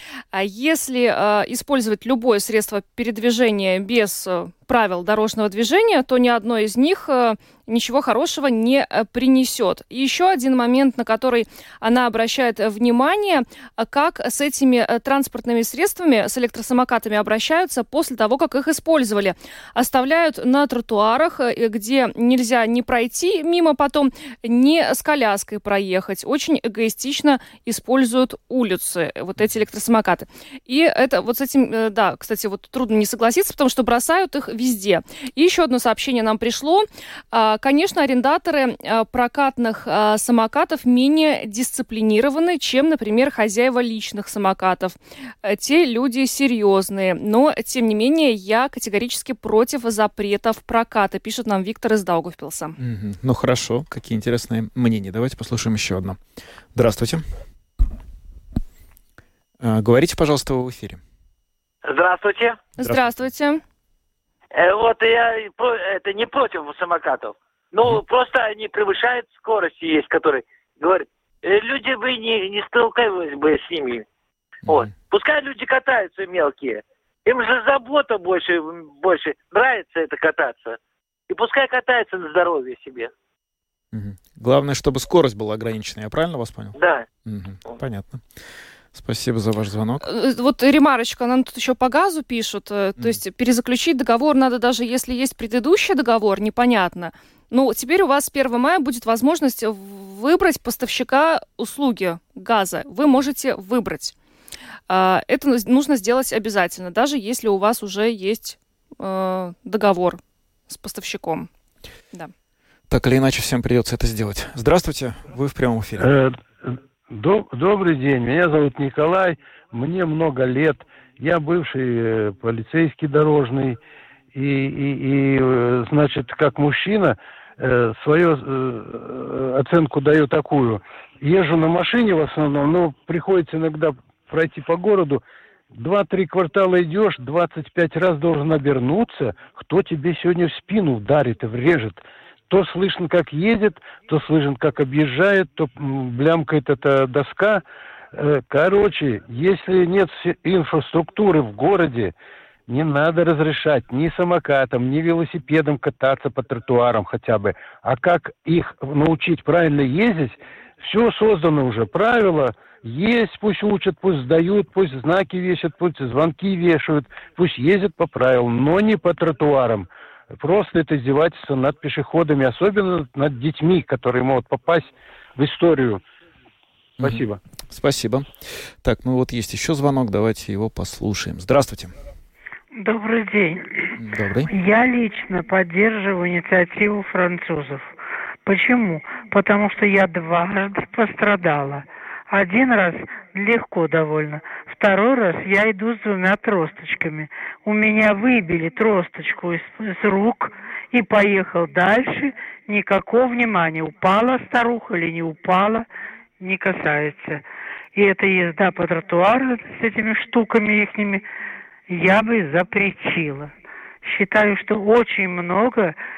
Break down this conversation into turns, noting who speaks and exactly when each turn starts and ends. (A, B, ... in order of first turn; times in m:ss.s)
0:00.3-0:52.8 A
0:52.8-0:56.2 B
0:56.8-0:57.2 B
0:59.6-1:01.0 B
1:01.8-1:02.6 C
1:02.8-1:03.1 B
1:02.8-1:03.6 A
1:04.6-1:14.1 C
1:14.7-1:20.8 C
1:21.3-1:23.1 C
1:23.9-1:26.8 B
1:26.8-1:27.1 C
1:27.3-1:28.2 B
1:28.9-1:30.1 B
1:30.0-1:44.2 A
1:44.9-1:51.5 A
1:52.9-1:56.1 B
1:56.0-2:03.8 D
2:04.3-2:32.1 D
2:32.7-2:56.0 D
2:57.0-3:01.9 B
2:57.0-2:57.4 D
3:02.8-3:03.9 E
3:04.0-3:04.5 B
3:04.5-3:07.9 E
3:08.5-3:25.9 E
3:26.4-3:27.4 E
3:28.0-3:31.2 E
3:31.9-3:33.5 E
3:34.0-3:36.0 E